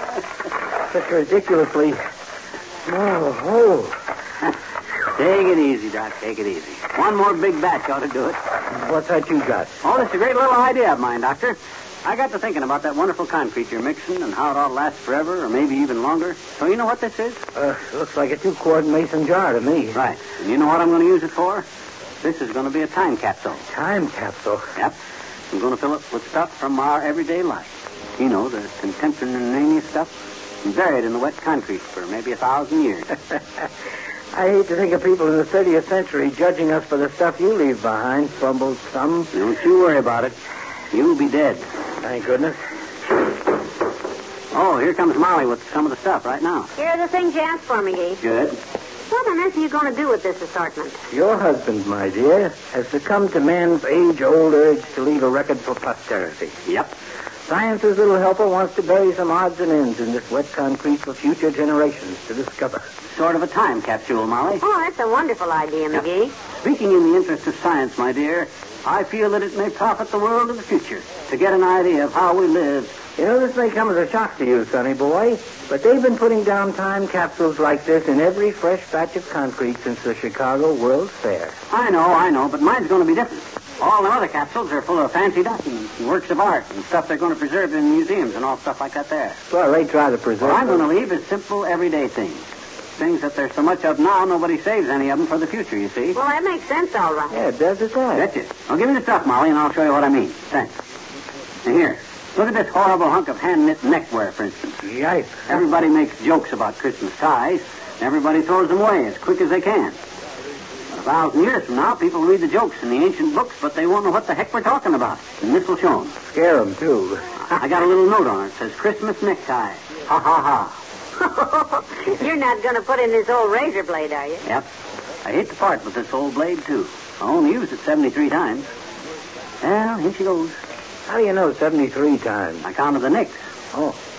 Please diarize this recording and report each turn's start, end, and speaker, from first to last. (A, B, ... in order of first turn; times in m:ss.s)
0:00.9-0:02.0 A
0:02.9-0:04.0 A
0:05.1-0:08.4 B
0:08.7-0:09.7 A
0:09.8-0:17.4 B
0:17.6-0:20.0 A
0:19.9-0:21.7 B
0:22.2-0:23.6 B
0:23.7-0:24.7 A
0:25.5-0:30.1 B
0:30.6-0:33.1 B
0:34.3-0:39.3 A
0:39.3-0:40.4 B
0:40.9-0:41.6 B
0:42.0-0:42.6 A
0:44.5-0:46.7 B
0:46.8-0:48.2 C
0:48.2-0:48.6 B
0:49.1-0:51.0 C
0:51.1-0:56.6 A
0:56.7-0:56.9 B
0:57.5-1:02.8 A
1:03.1-1:04.6 B
1:04.6-1:06.3 C
1:06.6-1:12.9 B
1:13.2-1:21.6 A
1:21.7-1:29.4 B
1:29.5-1:30.8 A
1:30.4-1:32.4 B
1:33.0-1:36.2 B
1:36.1-1:37.5 C
1:37.3-1:38.3 A
1:38.2-1:40.8 B
1:41.6-1:44.8 B
1:44.8-1:45.6 A
1:45.5-1:50.0 B
1:51.0-1:56.1 B
1:56.3-1:57.2 A
1:57.4-2:00.8 B
2:01.2-2:04.4 C
2:05.2-2:08.7 B
2:09.6-2:10.6 B
2:11.1-2:12.6 A
2:12.6-2:13.4 B